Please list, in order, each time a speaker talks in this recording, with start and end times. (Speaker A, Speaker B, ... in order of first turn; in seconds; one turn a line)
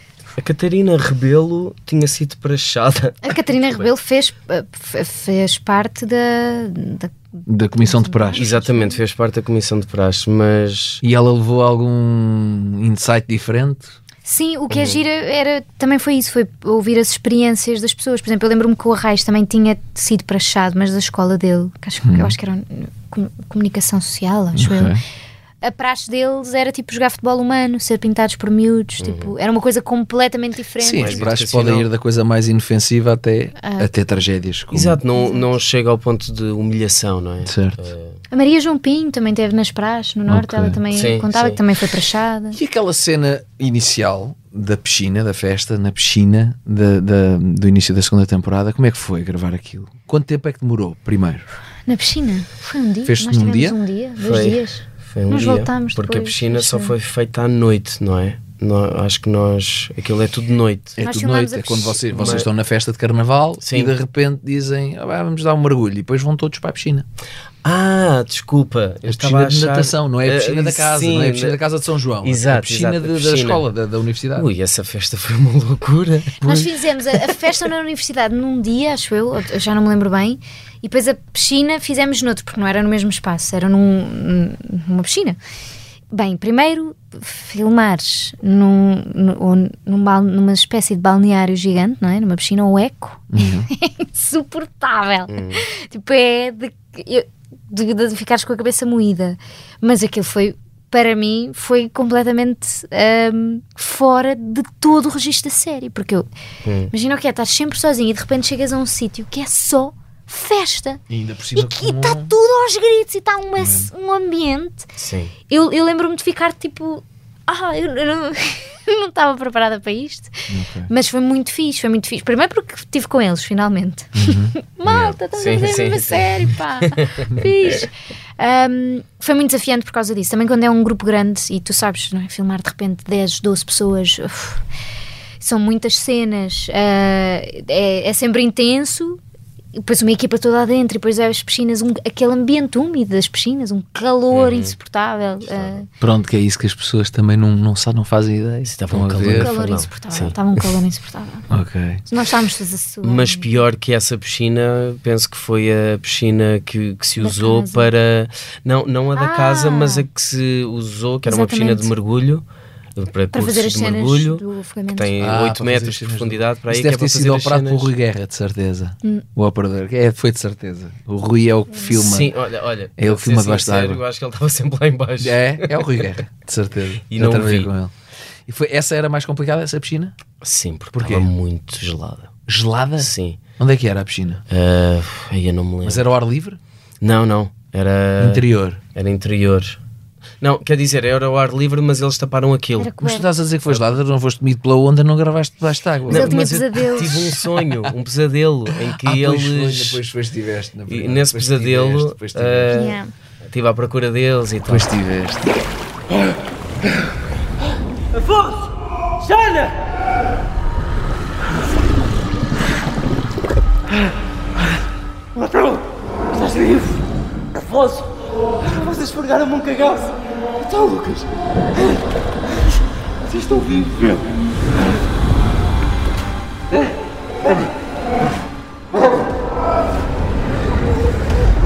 Speaker A: 0.4-3.9
Speaker B: 3.2-9.0
Speaker C: 7.5-8.5
Speaker A: 8.4-11.0
Speaker C: 11.0-14.0
Speaker B: 14.2-24.9
Speaker A: 14.7-15.0
Speaker C: 22.0-22.4
Speaker C: 24.6-25.0
Speaker B: 25.6-31.2
Speaker A: 29.0-29.4
Speaker C: 30.8-35.0
Speaker A: 31.0-31.9
Speaker B: 33.6-33.9
Speaker A: 34.7-38.2
Speaker B: 35.1-35.5
Speaker C: 37.4-37.8
Speaker B: 38.3-42.6
Speaker C: 40.3-40.8
Speaker A: 40.9-41.6
Speaker C: 42.5-51.5
Speaker B: 51.9-56.9
Speaker C: 53.1-53.8
Speaker A: 54.2-61.0
Speaker C: 61.0-67.1
Speaker B: 61.0-62.4
Speaker A: 62.1-62.5
Speaker A: 63.6-63.9
Speaker A: 67.6-71.6
Speaker C: 69.1-74.5
Speaker A: 72.2-73.7
Speaker A: 74.4-76.5
Speaker B: 76.4-85.4
Speaker B: 86.1-106.3
Speaker C: 93.3-93.7
Speaker A: 95.3-95.6
Speaker A: 106.7-106.9
Speaker B: 106.9-111.0
Speaker C: 111.1-112.3
Speaker B: 111.5-114.9
Speaker C: 113.6-113.9
Speaker A: 115.0-115.3
Speaker B: 115.5-134.6
Speaker C: 120.5-120.9
Speaker C: 124.2-124.5
Speaker A: 124.8-127.3
Speaker B: 135.4-139.2
Speaker B: 139.8-145.9
Speaker A: 144.3-144.7
Speaker A: 145.4-145.8
Speaker C: 146.0-149.5
Speaker A: 148.7-150.6
Speaker B: 149.2-151.5
Speaker C: 151.5-152.0
Speaker B: 152.1-153.5
Speaker A: 153.0-162.4
Speaker B: 157.2-157.9
Speaker B: 159.2-160.1
Speaker B: 161.3-161.9
Speaker A: 163.0-167.9
Speaker B: 163.3-165.1
Speaker C: 165.2-172.3
Speaker A: 171.9-176.2
Speaker C: 173.0-174.0
Speaker C: 175.2-177.9
Speaker A: 177.1-177.7
Speaker C: 178.5-180.2
Speaker A: 180.4-182.3
Speaker C: 180.9-181.3
Speaker C: 182.5-184.4
Speaker A: 183.0-183.4
Speaker A: 184.5-186.1
Speaker C: 185.8-186.6
Speaker A: 187.0-189.8
Speaker C: 188.2-188.8
Speaker A: 190.4-192.9
Speaker B: 192.8-193.3
Speaker C: 193.0-197.9
Speaker A: 196.1-200.0
Speaker B: 196.1-197.3
Speaker C: 198.9-202.9
Speaker A: 200.9-204.9
Speaker B: 202.8-203.1
Speaker C: 204.7-205.5
Speaker D: 208.2-208.6
Speaker D: 209.2-209.8
Speaker D: 215.4-215.8
Speaker D: 216.3-217.0
Speaker D: 217.6-222.0
Speaker D: 223.3-224.3